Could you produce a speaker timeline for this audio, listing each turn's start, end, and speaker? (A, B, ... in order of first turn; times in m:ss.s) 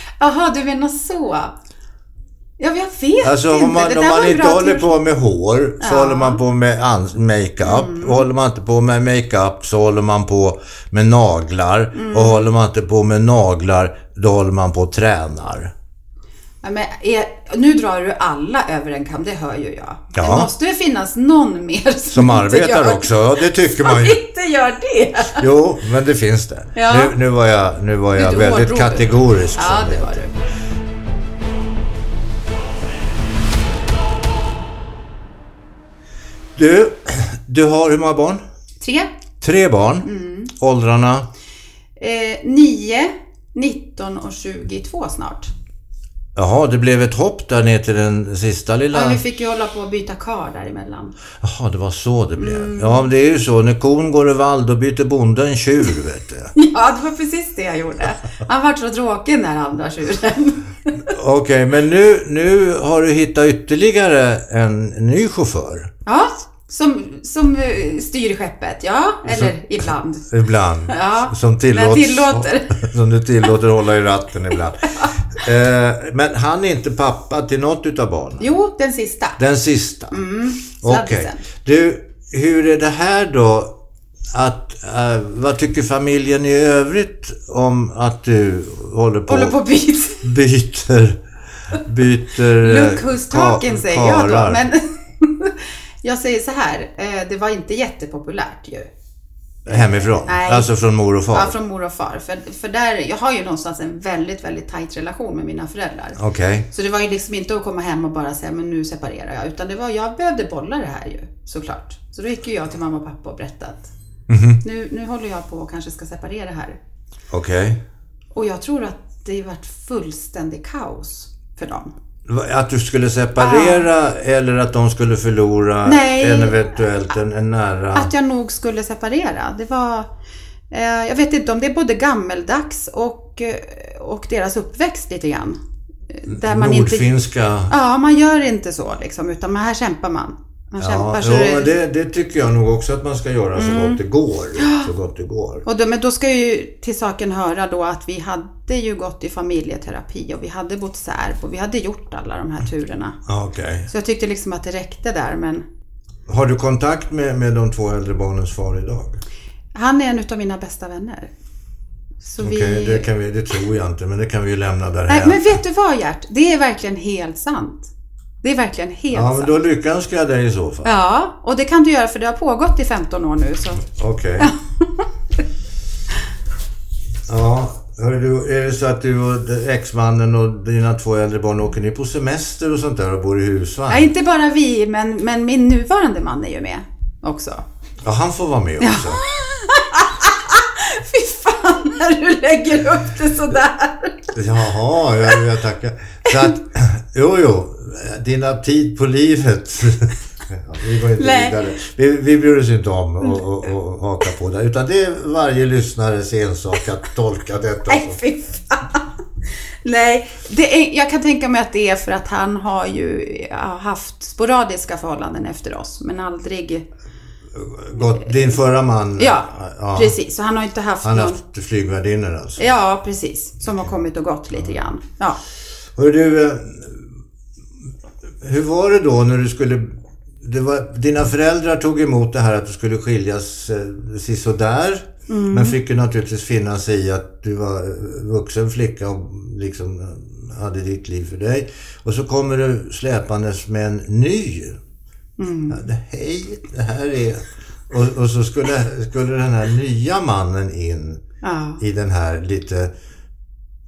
0:00.2-0:01.6 A
0:02.6-0:04.9 A
0:03.2-0:15.7 B
0:05.8-0:06.4 A
0:07.6-0:08.3 A
0:11.9-0:12.5 A
0:16.6-0:25.5 A
0:20.2-0:20.5 B
0:22.1-0:24.2 B
0:25.3-0:30.2 B
0:26.8-0:27.2 A
0:28.1-0:30.4 A
0:36.6-0:38.4 B
0:38.8-0:39.1 A
0:39.4-0:41.3 B
0:40.0-0:40.5 A
0:42.0-0:45.5 A
0:46.4-0:49.2 B
0:48.9-0:51.2 A
0:51.4-0:56.5 B
0:52.4-0:53.1 A
0:56.6-1:01.1 A
1:01.1-1:05.9 B
1:06.1-1:10.3 A
1:09.3-1:09.6 B
1:10.3-1:18.5 B
1:10.9-1:12.8 A
1:18.4-1:19.4 A
1:19.4-1:20.2 B
1:20.1-1:21.4 A
1:20.8-1:23.8 B
1:24.3-1:29.6 B
1:29.3-1:30.3 A
1:30.2-1:34.6 B
1:32.6-1:38.9 A
1:39.7-1:41.6 B
1:39.7-1:40.7 A
1:41.3-1:46.2 A
1:46.2-1:46.7 B
1:46.7-1:53.9 A
1:54.3-1:54.6 B
1:54.6-1:56.8 A
1:57.3-1:57.8 B
1:58.3-2:01.9 A
2:02.3-2:08.1 B
2:03.4-2:03.9 A
2:05.8-2:06.8 A
2:07.9-2:10.1 A
2:10.7-2:15.6 A
2:16.1-2:17.1 A
2:16.3-2:17.7 B
2:17.7-2:21.7 A
2:20.8-2:25.6 B
2:23.6-2:24.0 A
2:24.6-2:24.9 A
2:25.7-2:33.2 A
2:33.3-2:33.9 B
2:33.9-2:35.6 A
2:36.3-2:39.2 B
2:39.8-2:41.3 A
2:42.2-2:43.1 A
2:42.4-2:45.5 B
2:45.1-2:47.9 A
2:48.4-2:49.6 A
2:49.1-2:50.9 B
2:50.8-2:53.9 A
2:53.8-2:54.5 B
2:54.4-2:55.1 A
2:57.3-3:04.1 B
3:03.9-3:07.6 A
3:08.0-3:09.2 B
3:08.8-3:14.4 A
3:14.3-3:28.2 B
3:21.2-3:21.6 A
3:27.9-3:29.2 A
3:29.8-3:36.9 A
3:37.5-3:40.2 B
3:38.1-3:38.6 A
3:39.2-3:41.4 A
3:41.0-3:42.6 B
3:42.6-3:45.4 A
3:46.0-3:47.1 B
3:48.4-4:04.8 B
3:55.3-3:55.8 A
4:05.4-4:05.8 A
4:05.7-4:11.2 B
4:11.4-4:11.8 A
4:11.8-4:12.9 B